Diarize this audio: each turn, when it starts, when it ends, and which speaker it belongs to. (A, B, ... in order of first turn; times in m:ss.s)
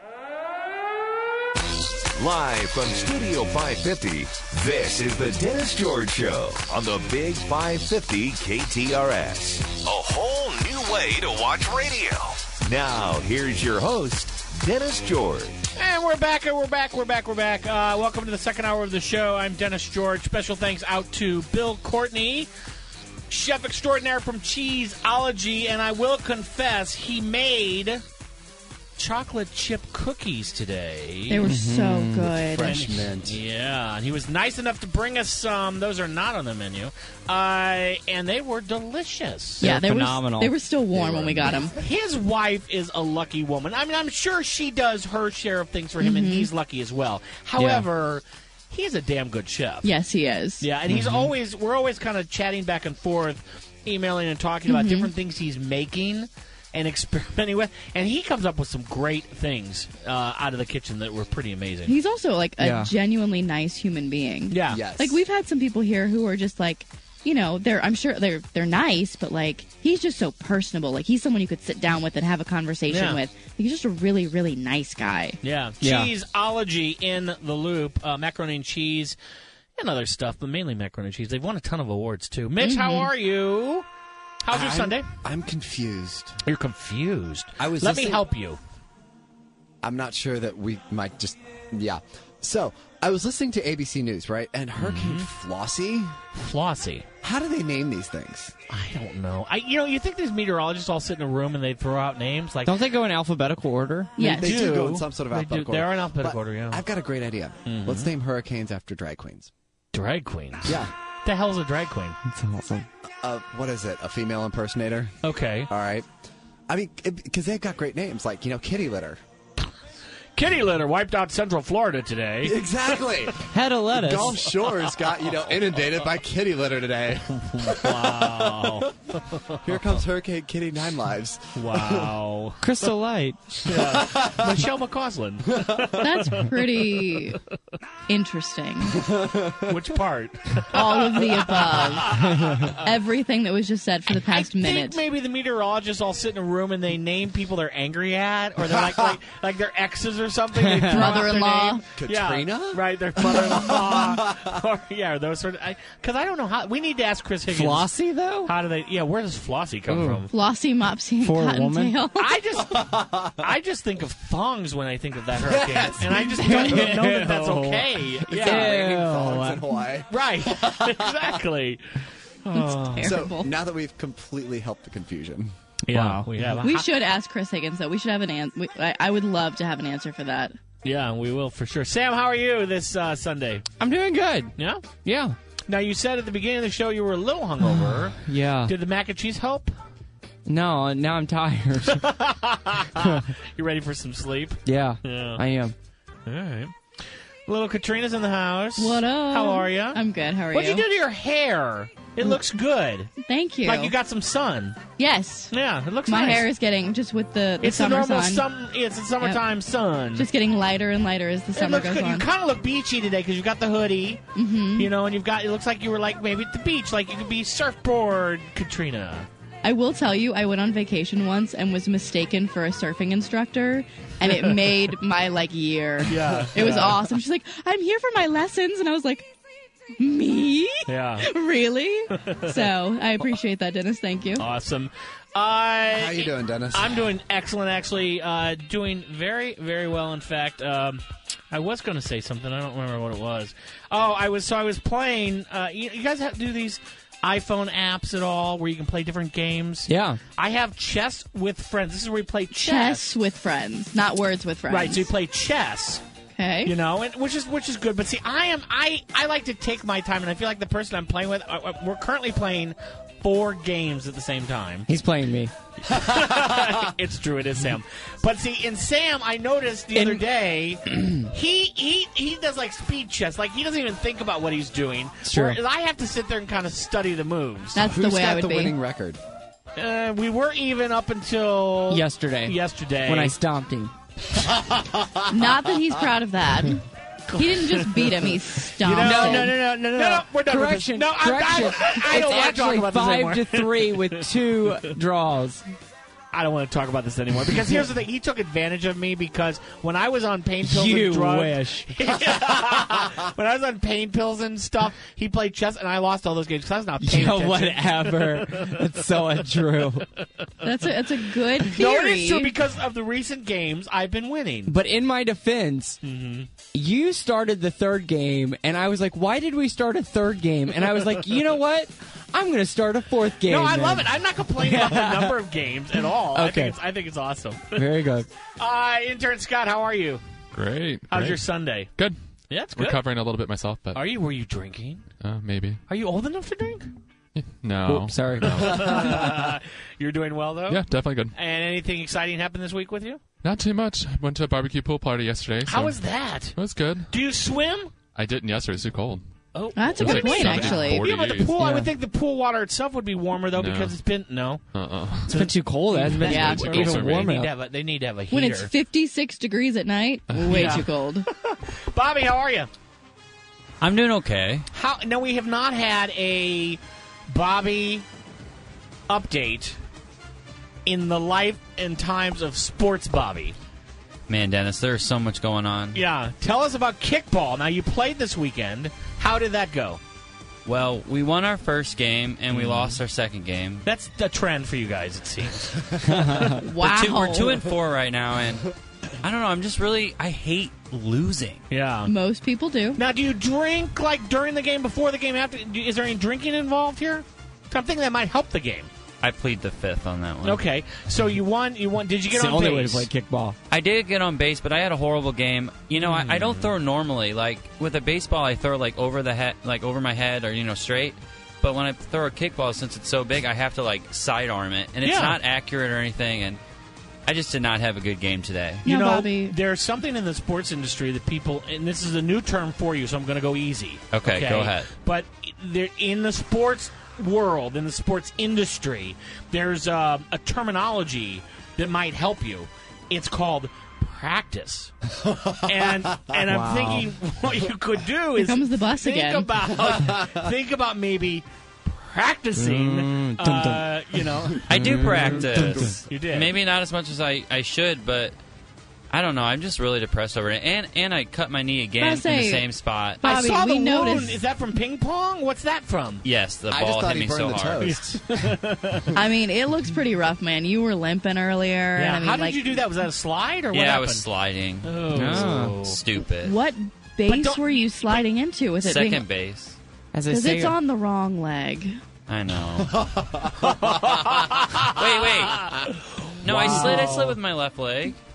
0:02.2-0:15.6 A
0:15.8-0:22.5 B
0:23.3-0:28.0 B
0:29.0-0:31.5 B
0:31.3-0:32.8 C
0:31.4-0:32.4 D
0:32.4-0:33.4 E
0:32.6-0:39.6 B
0:39.6-0:40.6 D
0:39.6-0:41.7 C
0:40.9-0:41.8 E
0:41.8-0:49.9 B
0:46.0-0:46.5 C
0:47.6-0:47.9 D
0:49.8-0:50.7 C
0:50.6-1:01.9 B
0:54.7-0:55.1 C
1:01.9-1:15.4 C
1:02.6-1:02.9 D
1:04.5-1:04.8 B
1:04.7-1:05.2 E
1:12.9-1:13.2 B
1:15.4-1:19.2 B
1:15.8-1:16.1 D
1:19.8-1:23.8 B
1:22.6-1:23.1 C
1:24.4-1:25.1 B
1:24.5-1:26.4 E
1:26.4-1:28.6 B
1:27.6-1:28.2 E
1:29.8-1:36.2 E
1:34.8-1:35.3 B
1:36.4-1:37.1 B
1:37.2-1:38.5 E
1:38.7-1:42.8 B
1:42.6-1:44.2 D
1:44.2-1:44.6 C
1:44.2-1:49.5 E
1:44.2-1:46.8 B
1:47.7-1:48.1 B
1:49.9-1:52.2 B
1:50.7-1:50.9 E
1:52.3-1:52.9 D
1:53.2-1:55.1 E
1:55.2-1:55.7 B
1:55.7-1:56.1 E
1:56.7-1:59.2 E
2:00.4-2:02.6 B
2:02.4-2:08.8 E
2:03.5-2:04.4 D
2:04.6-2:05.4 B
2:07.5-2:10.0 B
2:09.6-2:12.1 E
2:11.6-2:12.6 B
2:12.6-2:13.5 D
2:13.6-2:16.5 B
2:13.7-2:14.6 E
2:15.5-2:16.0 E
2:16.0-2:17.4 C
2:18.1-2:19.0 C
2:19.0-2:19.8 E
2:19.7-2:22.8 B
2:20.7-2:22.2 C
2:22.3-2:22.7 D
2:22.8-2:25.0 C
2:24.3-2:37.9 B
2:30.6-2:31.2 D
2:30.9-2:31.8 C
2:32.0-2:34.5 E
2:37.5-2:38.5 D
2:38.4-2:40.3 B
2:39.9-2:40.3 D
2:40.3-2:42.3 C
2:41.2-2:42.0 D
2:42.2-2:48.8 B
2:42.6-2:43.4 E
2:45.4-2:47.1 E
2:46.4-2:49.6 D
2:48.3-2:51.4 E
2:50.1-2:53.1 B
2:52.5-2:53.5 C
2:53.0-2:55.5 E
2:55.9-2:56.3 D
2:55.9-2:56.9 B
2:56.6-3:00.6 C
3:00.8-3:03.7 B
3:03.8-3:05.4 D
3:04.6-3:04.9 B
3:05.7-3:09.7 B
3:07.7-3:08.8 D
3:10.5-3:12.1 D
3:11.9-3:15.4 B
3:13.0-3:13.2 D
3:14.7-3:15.7 D
3:16.3-3:16.7 B
3:17.5-3:20.0 B
3:18.8-3:20.8 C
3:20.5-3:24.8 B
3:23.2-3:23.9 C
3:25.0-3:25.5 C
3:25.5-3:26.5 B
3:26.1-3:28.5 C
3:27.6-3:30.3 B
3:30.2-3:32.3 C
3:31.6-3:34.2 B
3:34.4-3:34.9 C
3:34.8-3:39.3 B
3:39.6-3:49.3 C
3:44.3-3:44.7 B
3:46.1-3:47.1 B
3:50.0-3:54.5 C
3:50.9-3:51.3 B
3:52.2-3:52.7 B
3:54.4-4:13.1 B
3:55.9-3:57.1 E
4:09.9-4:10.2 D
4:12.5-4:15.1 C
4:14.7-4:16.0 B
4:16.4-4:16.7 C
4:16.6-4:24.9 B
4:24.9-4:25.5 D
4:25.9-4:37.8 B
4:29.9-4:30.2 D
4:30.9-4:31.3 D
4:35.2-4:35.6 D
4:37.8-4:38.8 C
4:37.8-4:39.2 E
4:39.8-4:43.4 B
4:41.9-4:43.9 D
4:45.3-4:49.6 C
4:47.3-4:48.3 B
4:48.8-4:54.3 B
4:49.0-4:55.6 D
4:56.3-5:09.4 B
5:00.6-5:01.9 D
5:07.0-5:10.1 D
5:10.6-5:12.6 C
5:11.6-5:14.8 B
5:14.7-5:16.0 D
5:16.0-5:16.5 B
5:16.7-5:25.4 D
5:23.4-5:28.0 B
5:26.3-5:26.8 D
5:27.7-5:28.3 D
5:28.6-5:30.2 B
5:30.5-5:32.2 F
5:31.1-5:31.9 B
5:32.5-5:33.0 B
5:32.8-5:34.1 F
5:34.0-5:35.0 B
5:35.2-5:35.8 F
5:35.9-5:36.9 B
5:37.4-5:39.3 F
5:37.9-5:39.5 D
5:38.6-5:43.2 B
5:40.7-5:41.4 F
5:43.4-5:46.0 F
5:45.7-5:46.6 B
5:46.6-5:47.1 F
5:47.1-5:47.9 B
5:48.1-5:49.2 F
5:49.5-5:54.6 B
5:49.8-5:51.0 C
5:50.0-5:51.6 F
5:51.5-5:51.9 D
5:53.5-5:54.0 F
5:54.7-5:55.5 F
5:55.3-5:57.5 D
5:55.3-5:58.7 B
5:56.2-5:56.8 C
5:56.3-5:57.4 F
5:58.3-6:01.3 C
6:00.3-6:00.8 F
6:00.5-6:02.7 B
6:03.8-6:04.7 G
6:04.7-6:08.0 B
6:09.1-6:09.8 B
6:10.9-6:13.6 B
6:14.3-6:16.0 G
6:15.9-6:20.0 B
6:20.6-6:23.8 G
6:22.5-6:23.0 B
6:23.8-6:26.4 B
6:26.0-6:26.6 D
6:26.6-6:27.6 C
6:26.8-6:28.7 G
6:29.2-6:31.6 G
6:31.7-6:32.1 B
6:32.1-6:33.0 C
6:33.0-6:38.9 B
6:39.2-6:40.6 G
6:40.4-6:43.1 B
6:42.3-6:43.6 D
6:43.7-6:56.6 G
6:46.0-6:46.7 B
6:55.0-6:55.4 B
6:57.3-6:58.9 G
6:58.8-7:14.9 B
6:58.8-6:59.6 C
7:04.1-7:04.9 G
7:15.6-7:24.7 B
7:16.5-7:17.1 D
7:18.4-7:19.5 C
7:22.6-7:23.9 D
7:24.6-7:26.0 D
7:24.7-7:28.4 G
7:26.1-7:26.6 B
7:29.1-7:33.3 G
7:32.0-7:32.7 C
7:33.2-7:34.4 C
7:33.2-7:36.2 B
7:36.2-7:38.0 G
7:36.7-7:38.5 E
7:37.8-7:39.2 B
7:39.1-7:42.8 C
7:42.0-7:44.3 B
7:43.7-7:46.6 G
7:44.8-7:46.0 B
7:45.1-7:45.8 D
7:46.3-7:49.3 C
7:47.3-7:48.2 B
7:48.8-7:49.8 G
7:50.1-7:50.8 D
7:50.3-7:52.0 C
7:52.3-7:53.2 G
7:53.1-7:53.4 E
7:53.6-7:57.4 B
7:54.8-7:58.2 G
7:56.7-7:57.0 E